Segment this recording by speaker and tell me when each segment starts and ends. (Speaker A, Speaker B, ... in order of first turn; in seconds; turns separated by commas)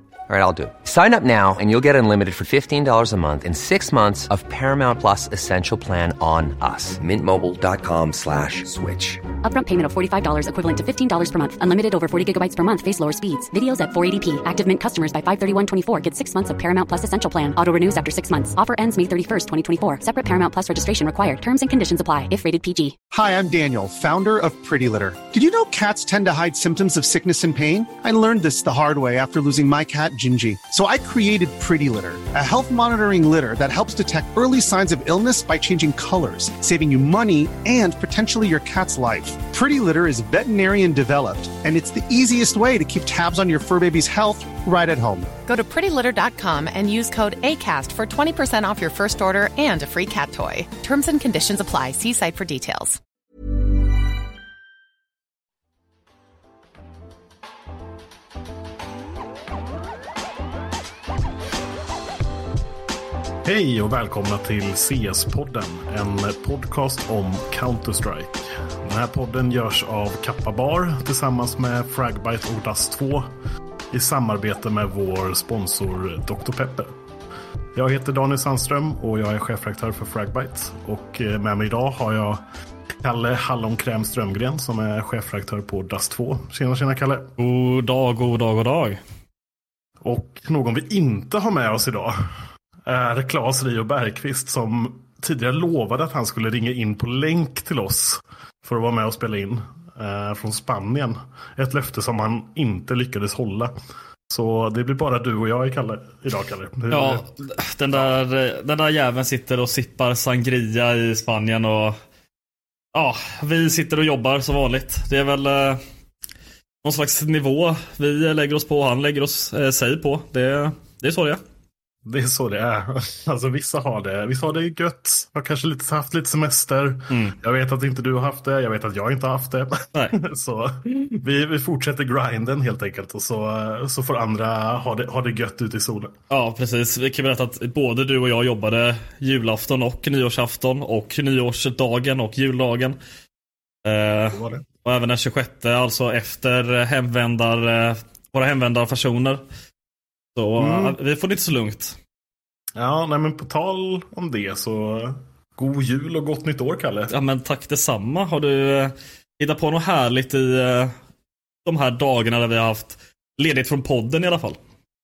Speaker A: 0.3-9.2, Speaker B: 9.4-23.0, Speaker C: 23.1-45.3, Speaker D: 45.5-53.0, Speaker E: 63.4-73.3, Speaker E: 73.9-76.9, Speaker E: 77.7-82.4, Speaker E: 83.0-87.3, Speaker F: 87.4-89.0, Speaker E: 90.0-92.3, Speaker E: 92.8-103.7, Speaker E: 104.3-107.3, Speaker F: 106.9-112.0, Speaker F: 112.9-115.8, Speaker F: 116.8-121.4, Speaker E: 122.0-136.2, Speaker F: 127.1-127.3, Speaker F: 136.3-143.0, Speaker F: 143.8-149.4, Speaker E: 144.3-144.7, Speaker F: 150.4-152.0, Speaker E: 150.6-151.0, Speaker E: 152.8-157.1, Speaker F: 157.1-160.9, Speaker F: 161.7-164.6